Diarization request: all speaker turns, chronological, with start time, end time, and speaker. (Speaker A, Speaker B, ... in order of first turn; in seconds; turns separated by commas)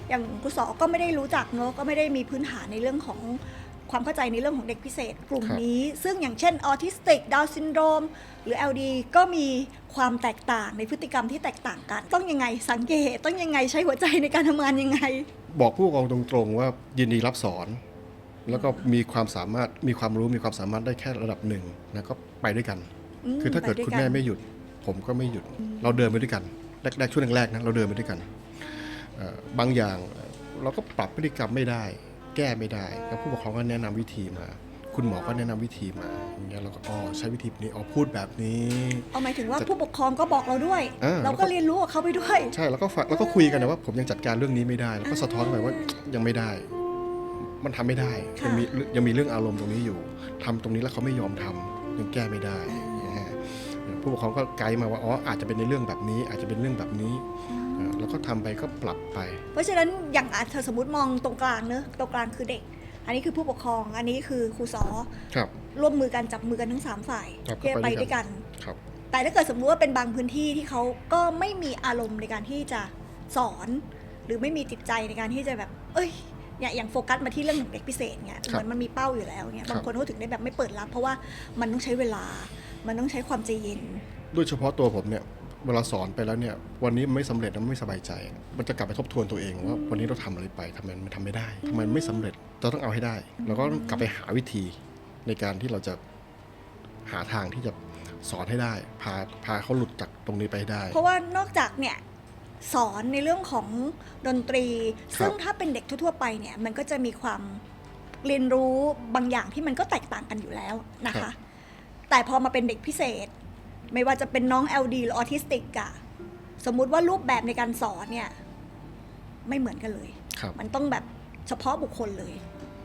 Speaker A: 0.1-15.3, Speaker B: 15.5-17.8, Speaker B: 18.5-39.7, Speaker A: 18.5-18.9, Speaker A: 23.2-24.2, Speaker A: 39.1-42.5, Speaker B: 41.0-41.5, Speaker B: 42.5-46.7, Speaker A: 43.2-43.6, Speaker A: 45.0-46.0, Speaker B: 47.4-57.2, Speaker A: 48.4-48.7, Speaker A: 52.7-53.2, Speaker A: 57.5-58.1, Speaker B: 57.8-59.4, Speaker A: 59.5-65.1, Speaker A: 65.7-68.5, Speaker B: 67.5-68.8, Speaker A: 69.1-84.0, Speaker B: 84.3-96.0, Speaker A: 89.6-90.2, Speaker A: 91.7-92.3, Speaker A: 93.4-94.1, Speaker B: 97.1-101.0, Speaker A: 100.9-102.0, Speaker A: 102.6-107.6, Speaker A: 108.2-111.4, Speaker A: 112.1-113.3, Speaker A: 113.9-116.0, Speaker A: 116.6-118.3, Speaker A: 119.5-122.4